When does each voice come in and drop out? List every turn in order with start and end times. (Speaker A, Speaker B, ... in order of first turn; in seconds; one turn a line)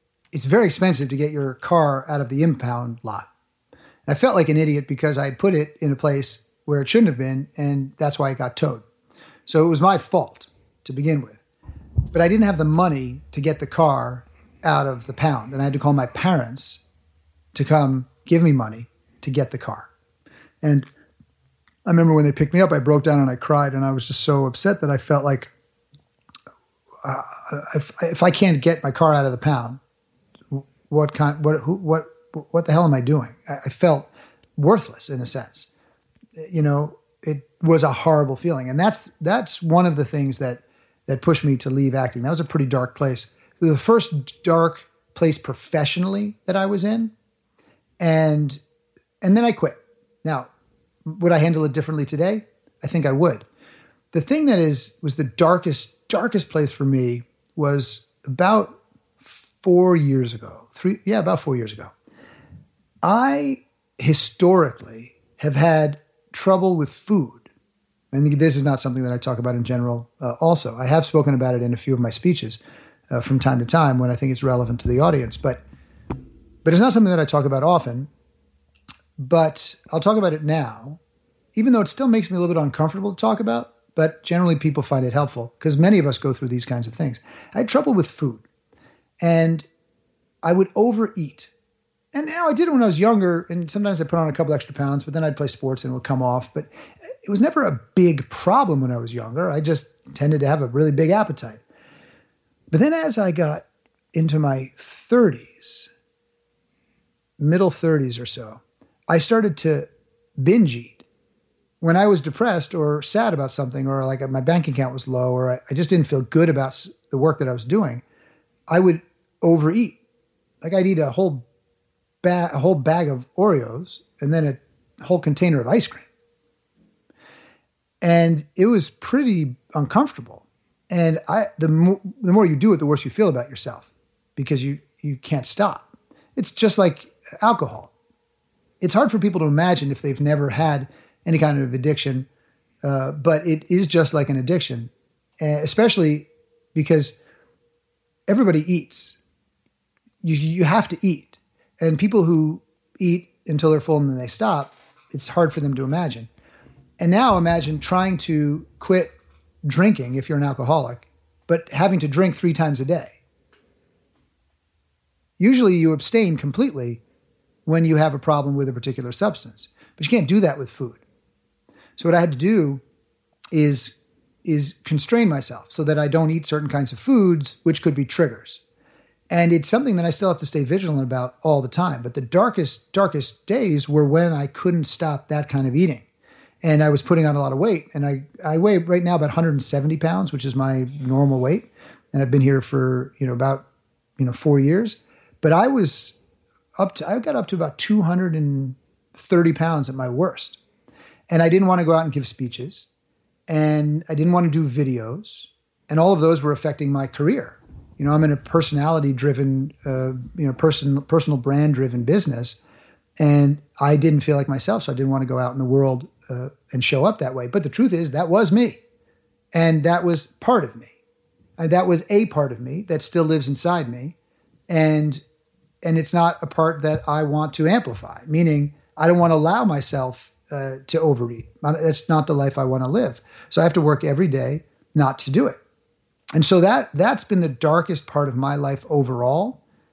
Speaker A: 0.3-3.3
Speaker A: 4.0-8.8
Speaker A: 9.5-11.4
Speaker A: 12.1-16.8
Speaker A: 17.5-19.9
Speaker A: 20.6-20.9
Speaker A: 21.9-25.5
Speaker A: 27.0-29.8
Speaker A: 30.5-35.7
Speaker A: 36.4-47.1
Speaker A: 48.0-48.6
Speaker A: 49.2-50.5
Speaker A: 51.0-53.5
Speaker A: 54.1-61.9
Speaker A: 63.0-67.5
Speaker A: 68.1-75.6
Speaker A: 76.6-78.1
Speaker A: 79.2-81.0
Speaker A: 81.5-88.4
Speaker A: 89.2-89.7
Speaker A: 90.4-91.5
Speaker A: 92.1-96.7
Speaker A: 97.2-101.6
Speaker A: 102.7-105.9
Speaker A: 107.4-111.0
Speaker A: 111.8-118.0
Speaker A: 118.7-120.0
Speaker A: 120.6-121.4
Speaker A: 122.2-126.0
Speaker A: 128.0-137.9
Speaker A: 138.8-142.3
Speaker A: 142.8-147.2
Speaker A: 148.3-149.2
Speaker A: 150.2-156.3
Speaker A: 157.0-163.2
Speaker A: 165.4-167.0
Speaker A: 167.7-171.0
Speaker A: 172.0-172.8
Speaker A: 173.5-178.6
Speaker A: 179.3-186.0
Speaker A: 186.6-193.7
Speaker A: 194.2-196.2
Speaker A: 196.8-200.6
Speaker A: 201.3-202.9
Speaker A: 203.5-212.6
Speaker A: 213.2-218.8
Speaker A: 219.5-220.9
Speaker A: 221.6-224.1
Speaker A: 224.7-225.2
Speaker A: 225.8-235.6
Speaker A: 236.3-239.6